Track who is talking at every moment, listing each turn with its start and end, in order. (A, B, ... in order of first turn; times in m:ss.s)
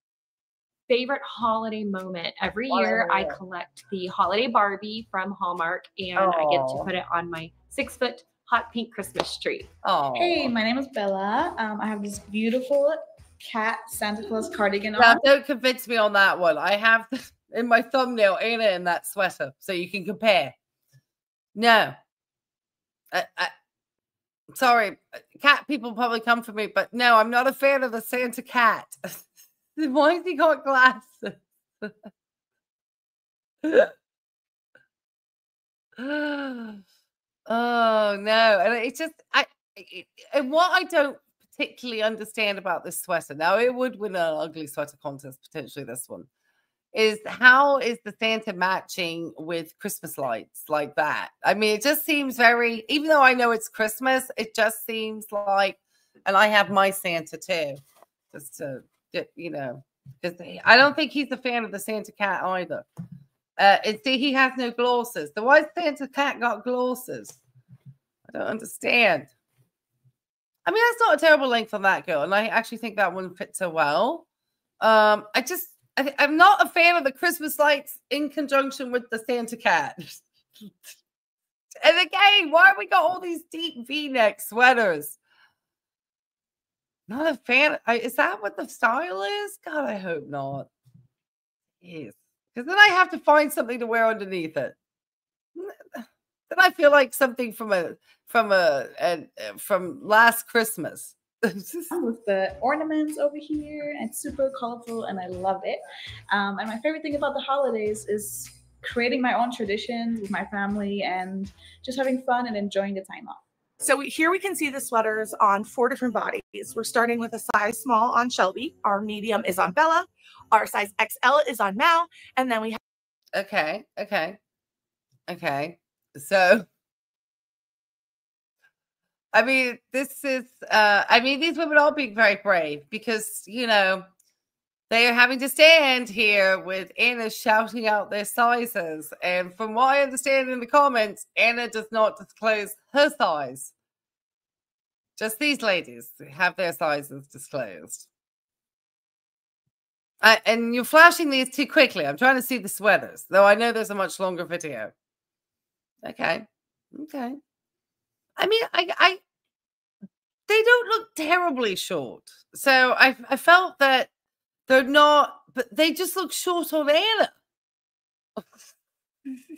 0:00.9-0:09.7 A
0:02.7-0:03.4 B
0:06.1-0:06.9 B
0:09.8-0:10.5 B
0:10.1-0:15.2 C
0:15.0-0:20.5 B
0:21.5-0:22.0 B
0:23.1-0:23.5 B
0:24.5-0:29.2 B
0:29.8-0:31.9 B
0:33.6-0:33.9 B
0:36.0-0:36.8 B
0:37.5-0:46.3 B
0:46.9-0:57.8 B
0:58.3-1:02.8 B
1:03.6-1:07.4 B
1:08.3-1:09.3 B
1:10.6-1:14.2 B
1:14.8-1:20.7 B
1:21.8-1:25.2 B
1:27.1-1:30.7 B
1:31.8-1:34.7 B
1:35.6-1:41.9 B
1:41.9-1:53.4 C
1:53.8-2:02.8 D
2:03.3-2:04.4 B
2:05.3-2:06.6 B
2:09.3-2:14.1 B
2:14.9-2:23.7 B
2:25.2-2:28.1 B
2:30.2-2:34.9 B
2:36.0-2:37.4 B
2:38.4-2:39.2 B
2:40.5-2:44.1 B
2:44.7-2:47.3 B